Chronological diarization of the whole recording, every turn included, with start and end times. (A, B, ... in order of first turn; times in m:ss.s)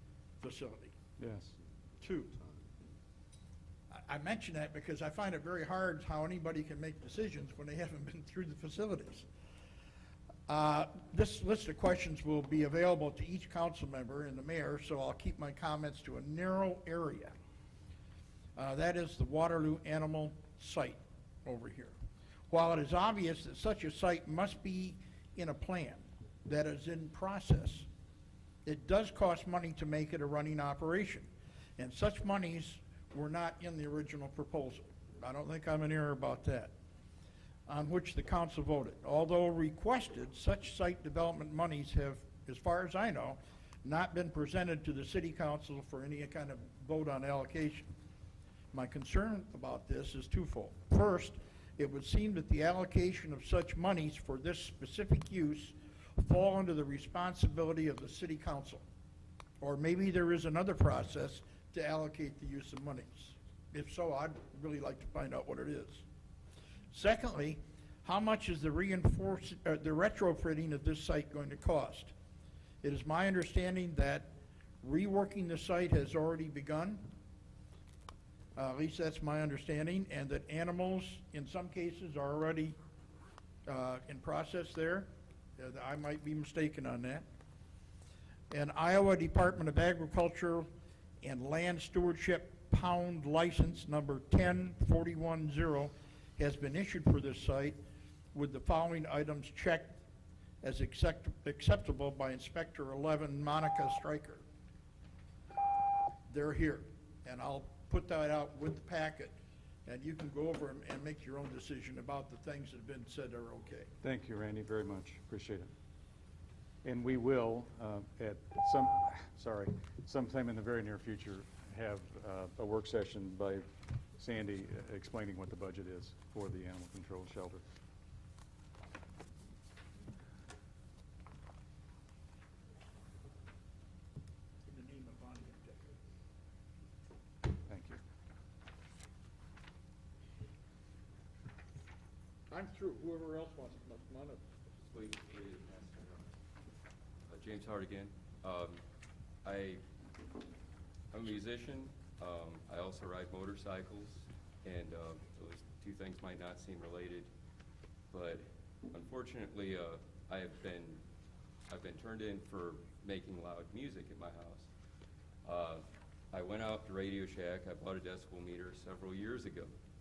0:00.4-0:00.9 A
0:01.2-0:01.5 B
0:02.0-0:02.4 A
0:03.9-0:09.3 A
0:10.5-0:17.3 A
0:18.6-0:22.0 A
0:22.5-0:27.9 A
0:28.6-0:36.7 A
0:37.7-0:47.9 A
0:48.7-0:58.8 A
0:59.6-1:06.0 A
1:06.9-1:12.1 A
1:12.8-1:14.3 A
1:14.8-1:17.0 A
1:18.6-1:22.8 A
1:23.7-1:27.2 A
1:28.5-1:30.7 A
1:31.2-1:37.8 A
1:38.3-1:40.0 A
1:40.6-1:44.4 A
1:46.3-1:49.4 A
1:49.9-1:53.9 A
1:54.0-1:55.7 B
1:56.8-2:07.6 B
2:14.7-2:16.0 A
2:17.5-2:18.0 B
2:22.5-2:24.4 A
2:24.8-2:26.3 C
2:27.3-2:28.8 C
2:29.4-2:29.8 C
2:31.1-2:37.3 C
2:38.1-2:41.0 C
2:41.7-2:44.7 C
2:45.4-2:49.7 C